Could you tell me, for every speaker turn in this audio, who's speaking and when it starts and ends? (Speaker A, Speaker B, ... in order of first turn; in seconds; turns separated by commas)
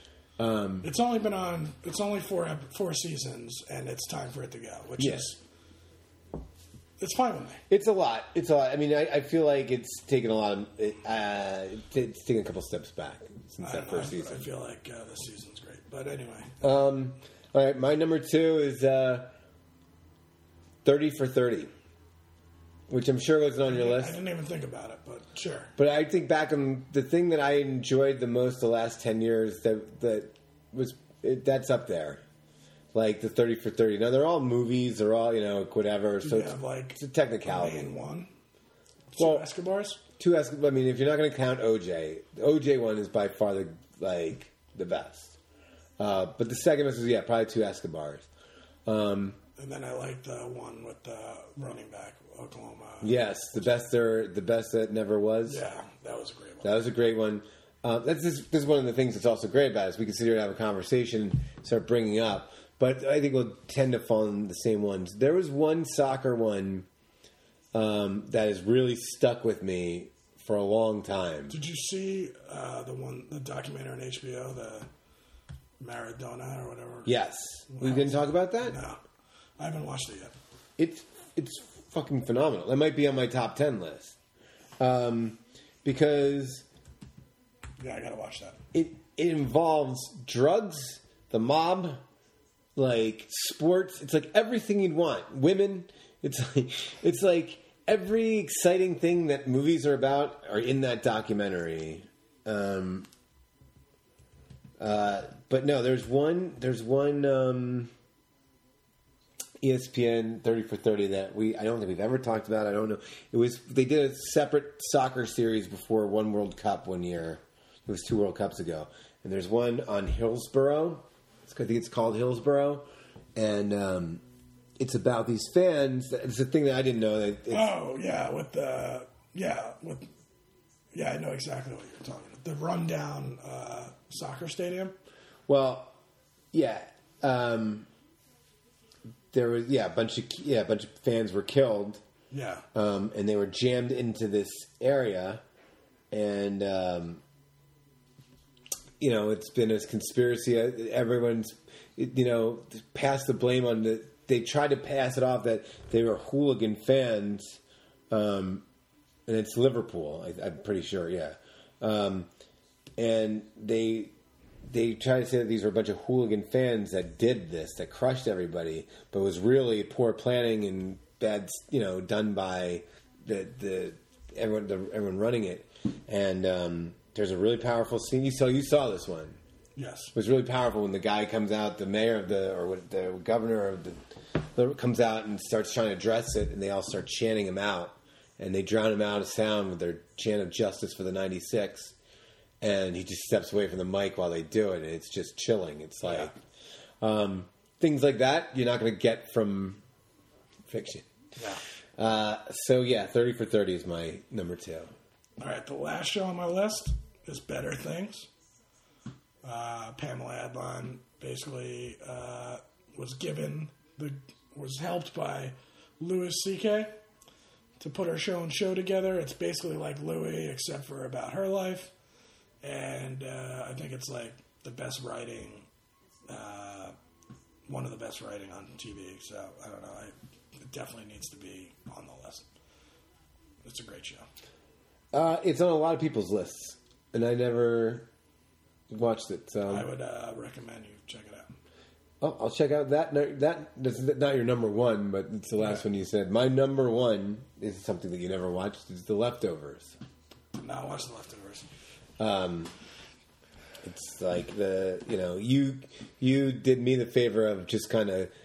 Speaker A: 0.4-0.9, Speaker B: 0.8-5.4, Speaker A: 5.0-5.3, Speaker B: 7.0-7.6, Speaker A: 7.7-14.4, Speaker B: 13.6-16.6, Speaker A: 16.6-19.3, Speaker A: 20.9-21.7, Speaker A: 22.9-24.2, Speaker B: 23.7-25.7, Speaker A: 25.8-32.2, Speaker A: 32.9-37.9, Speaker B: 36.2-38.3, Speaker B: 39.1-40.0, Speaker A: 39.2-39.5, Speaker A: 40.2-45.4, Speaker A: 46.0-48.3, Speaker A: 48.9-49.4, Speaker B: 49.6-53.4, Speaker A: 53.0-55.6, Speaker B: 55.5-56.8, Speaker A: 56.6-66.9, Speaker A: 67.7-71.6, Speaker B: 71.5-74.9, Speaker B: 75.8-77.2, Speaker A: 77.1-78.8, Speaker B: 77.7-79.0, Speaker B: 79.6-80.3, Speaker A: 80.8-84.2, Speaker A: 84.8-86.7, Speaker B: 87.8-88.6, Speaker A: 88.7-92.0, Speaker A: 92.8-103.1, Speaker A: 104.8-107.9, Speaker A: 109.6-124.2, Speaker A: 124.8-127.7, Speaker B: 127.5-130.1, Speaker B: 130.9-134.9, Speaker A: 135.5-135.9, Speaker A: 136.5-137.9, Speaker A: 139.3-142.0, Speaker B: 142.3-142.7, Speaker A: 142.7-145.4, Speaker A: 146.1-147.2, Speaker A: 149.0-157.6, Speaker A: 158.1-158.7, Speaker A: 159.3-162.3, Speaker A: 163.0-179.4, Speaker B: 179.8-180.1, Speaker A: 180.1-191.9, Speaker A: 192.6-196.3, Speaker B: 196.0-196.3, Speaker A: 197.0-199.8, Speaker A: 200.7-201.1, Speaker B: 201.4-201.6, Speaker A: 202.0-204.9, Speaker B: 205.4-208.3, Speaker B: 209.4-217.0, Speaker B: 217.8-221.9, Speaker B: 222.6-225.7, Speaker B: 226.3-226.9, Speaker B: 227.7-232.5, Speaker B: 233.6-234.3, Speaker A: 235.1-238.1, Speaker A: 238.9-239.9, Speaker B: 239.7-241.5, Speaker A: 242.2-250.0, Speaker B: 250.5-251.7, Speaker A: 252.2-252.7, Speaker A: 253.8-258.3